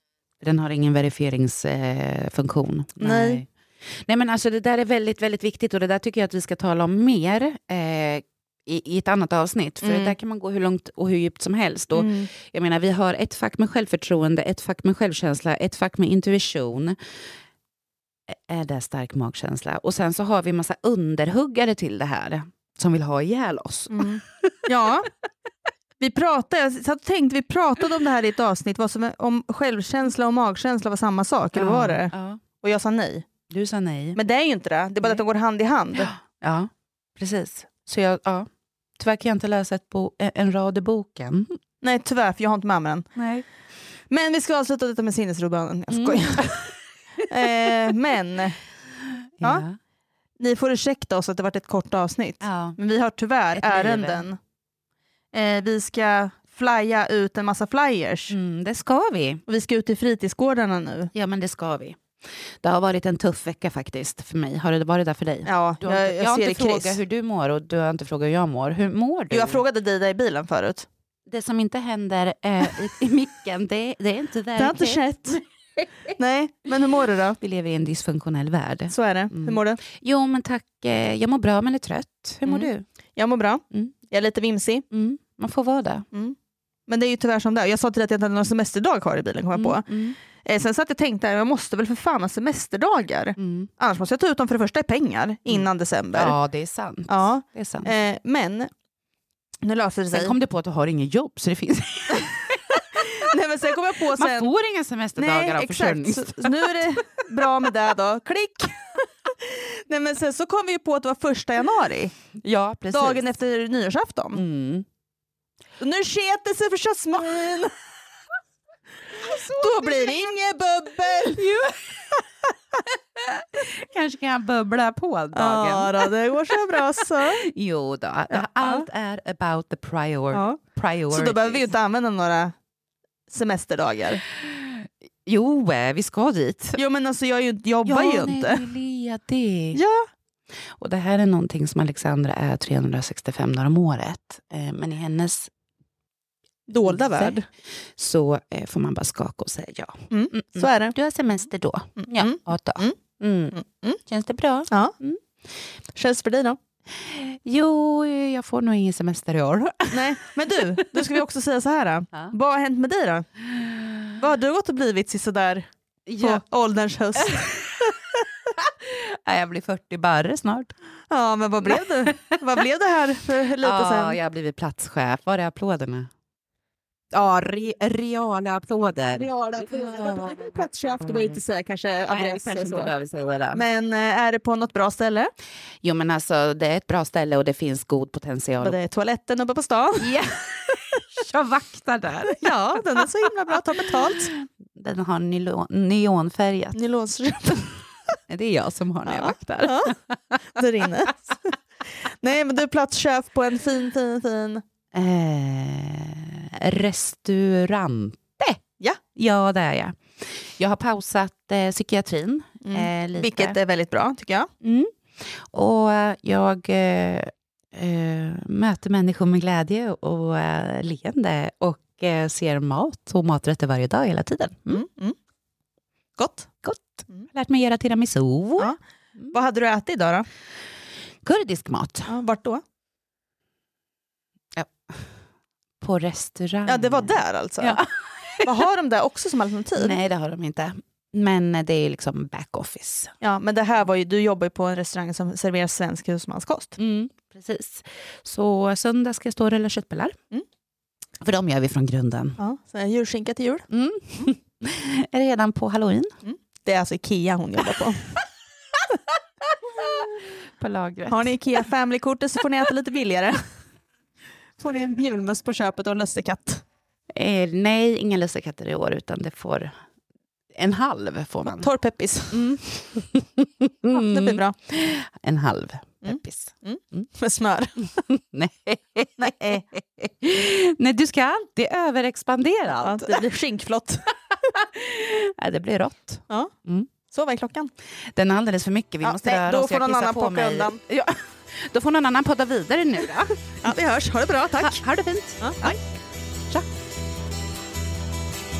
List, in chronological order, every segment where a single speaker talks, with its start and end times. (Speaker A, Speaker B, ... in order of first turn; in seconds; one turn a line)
Speaker A: 0.4-17.0
Speaker B: 3.0-3.4
Speaker B: 9.8-10.2
Speaker B: 11.9-12.3
Speaker A: 18.3-24.5
Speaker B: 23.9-25.1
Speaker B: 26.0-33.3
Speaker A: 31.5-32.4
Speaker A: 33.5-34.2
Speaker B: 34.1-36.1
Speaker A: 35.9-41.5
Speaker B: 41.8-43.1
Speaker A: 43.2-43.5
Speaker B: 44.1-46.6
Speaker A: 45.9-46.7
Speaker B: 47.3-48.6
Speaker A: 47.4-47.7
Speaker A: 49.4-49.8
Speaker B: 50.4-54.4
Speaker A: 52.4-52.8
Speaker A: 53.5-54.3
Speaker B: 55.3-58.4
Speaker A: 58.3-59.4
Speaker B: 59.5-61.1
Speaker A: 61.1-62.0
Speaker A: 62.6-69.6
Speaker B: 65.5-67.0
Speaker B: 69.3-70.9
Speaker A: 71.3-75.4
Speaker B: 74.6-75.4
Speaker B: 76.2-77.4
Speaker A: 77.4-82.8
Speaker B: 78.9-79.8
Speaker B: 82.5-84.8
Speaker A: 84.9-86.0
Speaker B: 86.9-89.9
Speaker A: 89.5-90.2
Speaker B: 90.4-96.4
Speaker A: 93.4-93.7
Speaker A: 95.5-97.9
Speaker B: 97.1-98.7
Speaker B: 99.6-100.4
Speaker A: 100.1-103.1
Speaker B: 103.2-104.5
Speaker A: 104.1-106.9
Speaker B: 105.2-108.8
Speaker B: 109.4-112.1
Speaker A: 112.4-113.3
Speaker B: 112.9-114.4
Speaker A: 114.3-114.9
Speaker B: 115.8-117.7
Speaker A: 119.2-120.3
Speaker B: 119.5-121.5
Speaker A: 121.3-122.2
Speaker A: 123.2-131.7
Speaker B: 125.3-127.5
Speaker B: 128.3-128.9
Speaker B: 130.3-130.6
Speaker B: 131.1-132.5
Speaker B: 133.3-134.2
Speaker A: 134.3-136.8
Speaker B: 136.8-138.6
Speaker A: 137.8-139.8
Speaker B: 139.7-140.1
Speaker A: 140.8-145.5
Speaker B: 146.7-147.5
Speaker A: 146.8-147.4
Speaker A: 148.0-155.2
Speaker B: 150.1-150.9
Speaker B: 152.0-153.0
Speaker B: 153.5-154.0
Speaker B: 155.9-156.6
Speaker A: 157.0-160.9
Speaker B: 159.9-163.3
Speaker A: 163.6-164.1
Speaker B: 164.2-165.7
Speaker A: 166.1-166.4
Speaker B: 166.2-167.9
Speaker A: 167.2-167.7
Speaker A: 168.6-170.7
Speaker B: 171.1-174.2
Speaker A: 171.7-172.3
Speaker A: 173.6-176.1
Speaker A: 177.1-180.3
Speaker B: 179.2-182.9
Speaker A: 182.1-183.6
Speaker B: 183.5-185.3
Speaker A: 185.8-188.8
Speaker B: 188.6-190.1
Speaker A: 190.0-193.0
Speaker B: 192.3-194.3
Speaker A: 194.7-196.8
Speaker B: 196.8-197.7
Speaker A: 198.3-200.4
Speaker B: 199.1-199.9
Speaker B: 200.6-201.5
Speaker B: 202.1-204.6
Speaker A: 204.9-208.6
Speaker A: 209.2-213.6
Speaker B: 212.6-214.5
Speaker A: 214.6-214.9
Speaker A: 215.5-224.8
Speaker B: 224.7-225.2
Speaker B: 226.2-226.5
Speaker A: 226.6-229.3
Speaker B: 229.3-230.2
Speaker A: 231.2-232.1
Speaker B: 232.1-232.6
Speaker A: 234.6-235.1
Speaker A: 235.8-238.5
Speaker B: 236.7-237.8
Speaker B: 238.4-240.0
Speaker A: 239.8-243.1
Speaker B: 243.2-246.8
Speaker A: 246.8-250.2
Speaker A: 251.2-252.4
Speaker B: 252.4-253.7
Speaker A: 253.7-256.1
Speaker B: 256.2-258.1
Speaker A: 259.8-261.5
Speaker B: 261.1-263.4
Speaker B: 264.6-266.6
Speaker A: 267.1-269.7
Speaker A: 270.5-271.7
Speaker B: 271.4-272.6
Speaker A: 272.3-277.1
Speaker B: 273.9-274.6
Speaker B: 276.0-277.9
Speaker A: 278.1-283.2
Speaker B: 279.2-279.7
Speaker B: 282.8-284.1
Speaker A: 284.6-286.9
Speaker B: 287.1-287.7
Speaker A: 288.1-293.7
Speaker B: 289.0-290.8
Speaker B: 293.6-294.8
Speaker A: 294.6-295.8
Speaker B: 295.4-295.8